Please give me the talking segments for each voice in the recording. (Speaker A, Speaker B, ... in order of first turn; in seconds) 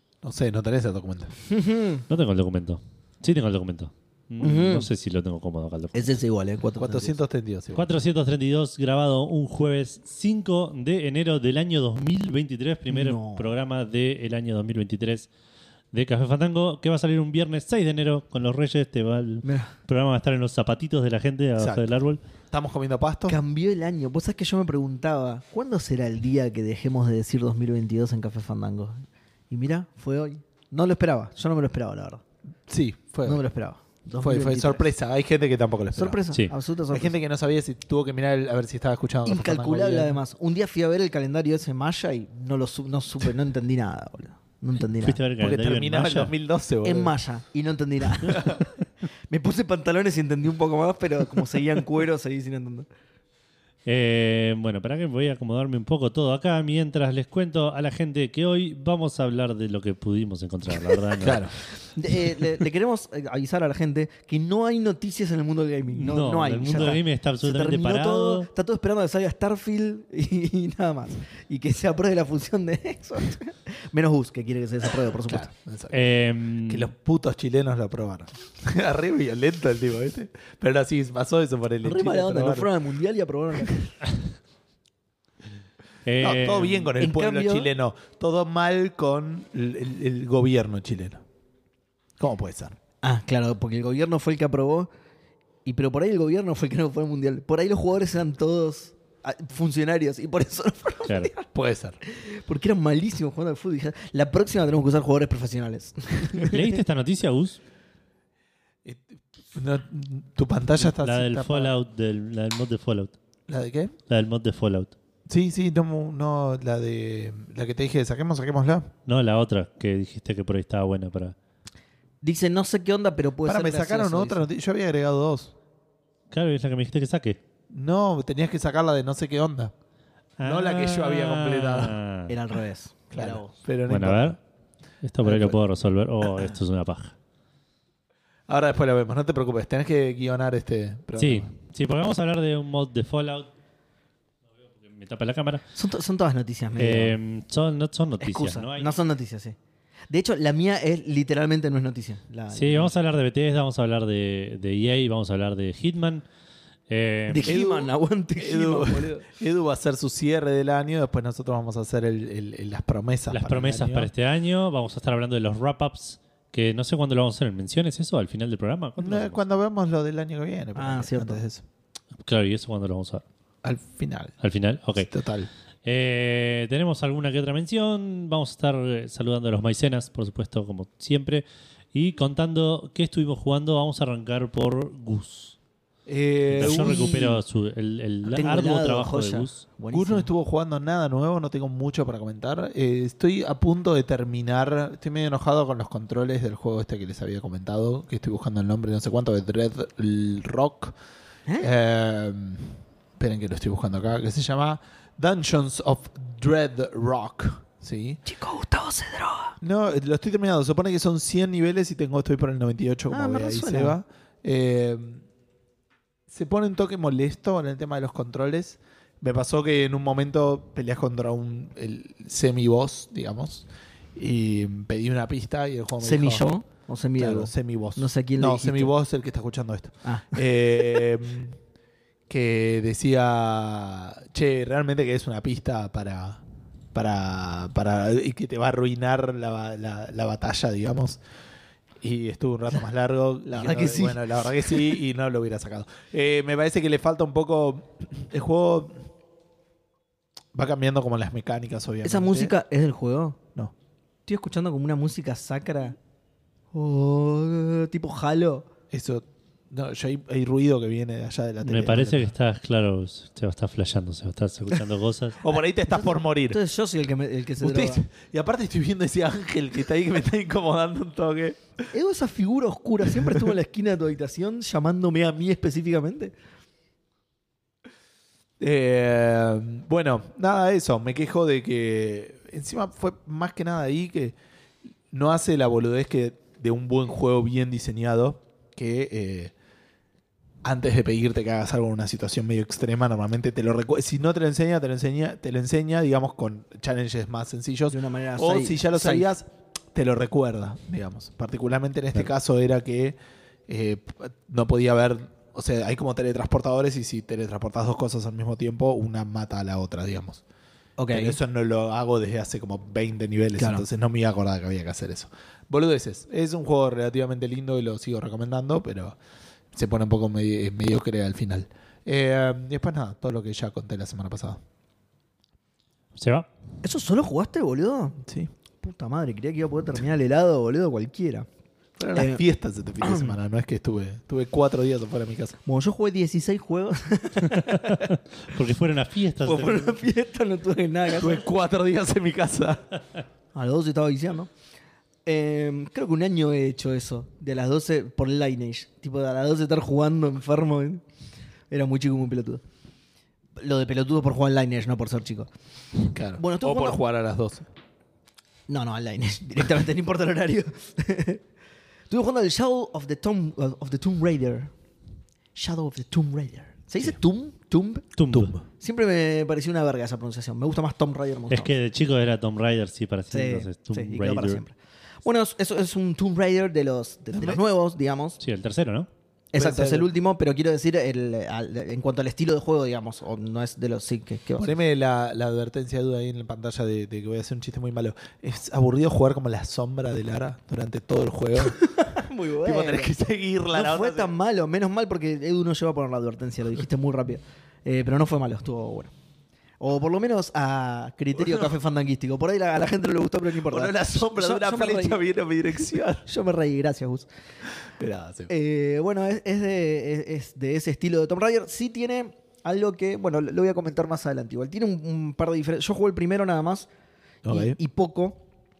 Speaker A: 0.2-1.3, 6.8-7.9, 21.6-21.9, 22.5-23.4, 32.7-33.4, 34.2-36.2, 36.9-40.2, 45.4-47.1, 48.2-48.6, 61.2-61.5, 75.3-76.0, 76.7-82.7, 86.2-91.2, 92.2-92.8, 101.5-102.0, 108.8-111.7, 113.5-113.9, 115.3-118.9, 123.4-125.5, 127.7-129.7, 130.4-131.9, 133.1-134.4, 135.2-135.6, 138.5-141.5, 157.4-164.1, 169.0-171.6, 173.6-174.4, 175.0-175.5, 186.1-187.4, 189.9-200.9, 201.6-208.2, 209.6-215.2, 216.3-226.4, 227.2-231.6, 232.3-236.4, 236.9-241.2, 242.0-249.1, 250.5-252.5, 258.9-262.3, 265.4-266.6, 267.6-271.6, 278.6-284.4, 285.1-289.5, 290.6-303.1, 303.7-310.4, 311.1-319.2, 319.7-324.6, 328.2-328.5, 332.0-335.6, 341.1-342.8, 356.1-357.7, 368.3-368.6, 379.6-380.1, 384.6-391.8, 392.6-394.3, 401.3-401.8, 403.6-406.2, 408.0-408.5, 417.4-417.8
Speaker B: 1.5-2.0, 4.4-4.9, 5.9-7.2, 12.9-13.5, 19.4-19.7, 23.3-32.2, 33.2-34.9, 35.9-37.1, 39.2-45.2, 46.8-48.7, 49.3-52.9, 61.9-75.5, 81.8-83.9, 87.0-87.7, 93.0-94.9, 95.7-101.5, 102.0-106.7, 122.2-124.5, 132.3-133.5, 145.7-147.2, 148.2-149.6, 150.1-152.9, 157.3-159.2, 170.8-171.4, 186.6-187.3, 188.3-190.3, 208.2-209.6, 213.1-213.9, 226.0-228.9, 230.0-231.0, 243.5-245.0, 252.0-253.4, 254.3-255.9, 256.7-258.6, 265.9-268.0, 271.9-276.3, 297.9-299.3, 311.0-311.4, 313.6-313.8, 326.8-328.2, 328.8-331.4, 332.1-332.4, 333.0-333.3, 335.6-338.0, 339.4-341.4, 343.5-344.5, 345.2-351.0, 351.7-352.6, 353.6-355.5, 356.4-357.0, 358.7-361.4, 362.1-364.7, 365.5-368.1, 368.7-371.7, 373.3-378.4, 379.5-384.8, 391.7-393.1, 393.7-399.1, 399.8-405.2, 405.8-407.3, 408.5-416.9, 417.5-418.4
Speaker C: 2.1-6.2, 7.7-15.3, 15.9-22.2, 45.0-46.3, 53.9-61.5, 65.9-68.5, 75.9-76.9, 86.0-86.9, 101.0-101.3, 106.4-107.6, 110.8-113.1, 114.1-114.9, 119.0-121.3, 126.3-127.4, 130.4-132.4, 133.9-134.4, 135.0-137.1, 141.2-143.5, 144.8-145.6, 146.8-148.9, 152.5-156.2, 156.9-157.5, 163.3-169.4, 172.2-173.2, 174.4-175.1, 175.8-185.6, 186.5-189.6, 261.6-265.4, 326.1-326.5, 337.6-340.0, 368.1-368.5, 371.5-374.6, 378.4-379.1